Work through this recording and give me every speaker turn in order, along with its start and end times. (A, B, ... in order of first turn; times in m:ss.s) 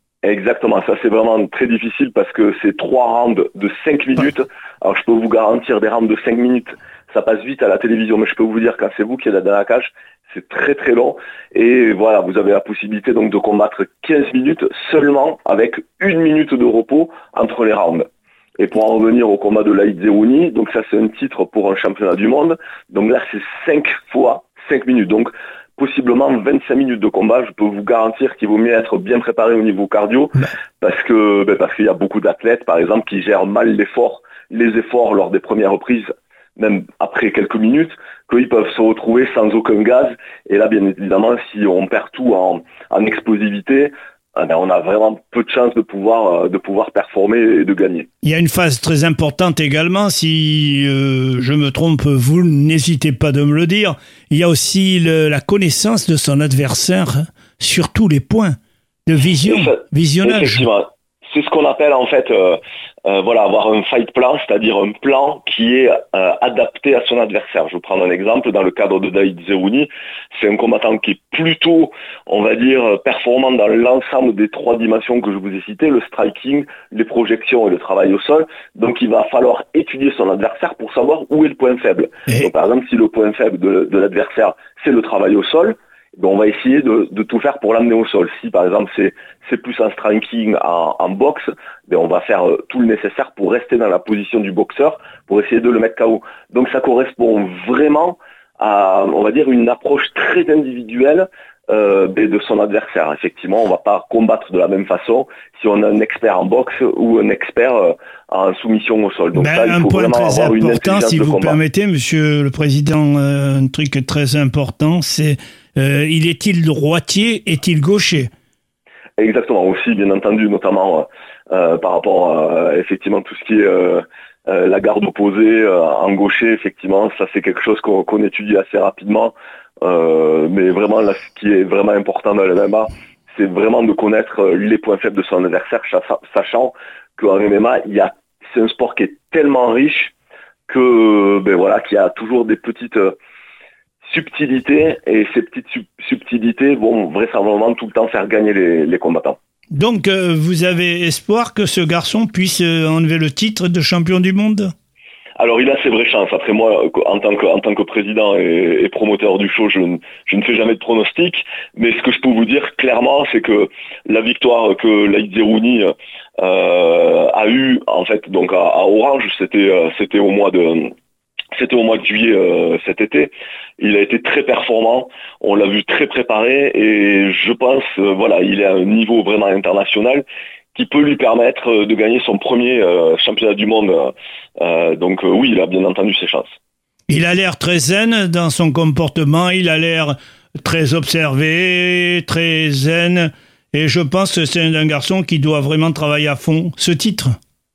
0:00.2-0:48.1 A
0:48.2-1:00.6 B
0:59.4-1:51.6 A
1:49.3-1:58.3 B
1:59.2-2:20.1 A
2:20.7-2:23.2 A
2:24.0-2:29.4 A
2:29.7-2:34.7 B
2:35.4-2:50.9 A
2:51.5-3:06.5 A
3:07.1-3:17.3 B